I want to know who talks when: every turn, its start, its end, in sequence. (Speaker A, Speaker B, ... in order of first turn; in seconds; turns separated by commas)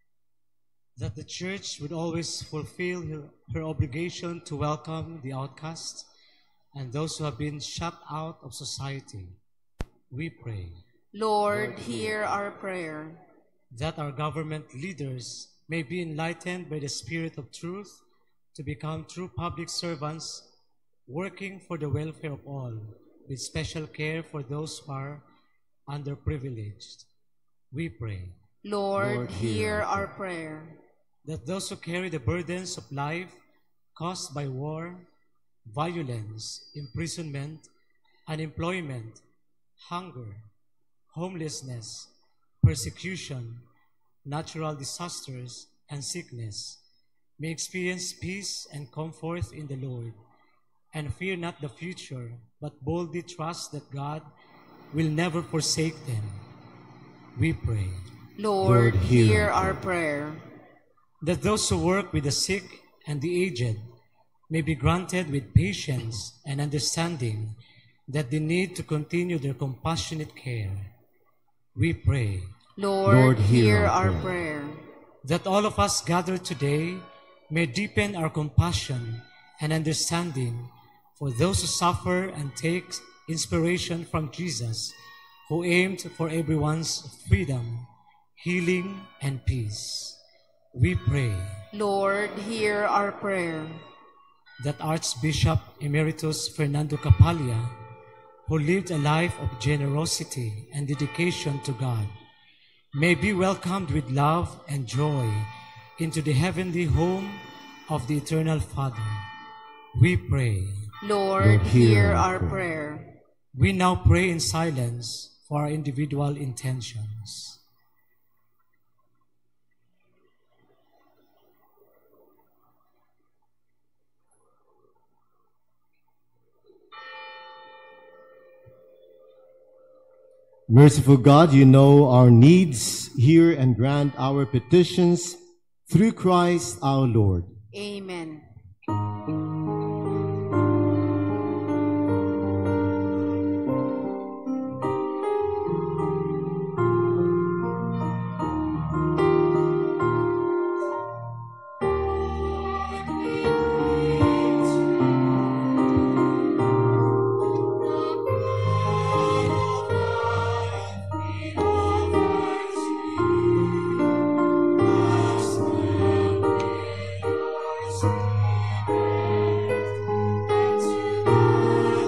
Speaker A: 1.0-6.1, Speaker A: 6.7-9.4, Speaker A: 10.1-10.8, Speaker B: 11.1-13.2, Speaker A: 13.7-18.0, Speaker A: 18.5-20.5, Speaker A: 21.1-25.2, Speaker A: 25.9-27.1, Speaker A: 27.7-28.4, Speaker B: 28.6-30.8, Speaker C: 29.0-30.1, Speaker A: 31.2-33.4, Speaker A: 34.0-35.0, Speaker A: 35.7-37.7, Speaker A: 38.3-39.2, Speaker A: 39.8-40.5, Speaker A: 41.1-43.6, Speaker A: 44.2-46.8, Speaker A: 47.4-50.2, Speaker A: 50.9-54.3, Speaker A: 54.9-56.4, Speaker A: 57.4-58.0, Speaker B: 58.4-60.4, Speaker C: 58.6-59.8, Speaker A: 61.2-63.9, Speaker A: 64.5-67.5, Speaker A: 68.1-70.9, Speaker A: 71.8-72.5, Speaker B: 72.8-74.8, Speaker C: 73.0-74.3, Speaker A: 75.2-90.2, Speaker A: 90.7-91.6, Speaker B: 91.7-93.8, Speaker A: 94.6-97.7, Speaker A: 98.5-102.1, Speaker A: 102.9-109.3, Speaker A: 109.9-110.9, Speaker B: 111.0-113.1, Speaker C: 111.4-112.7, Speaker A: 113.5-117.6, Speaker C: 130.7-137.5, Speaker B: 137.7-138.4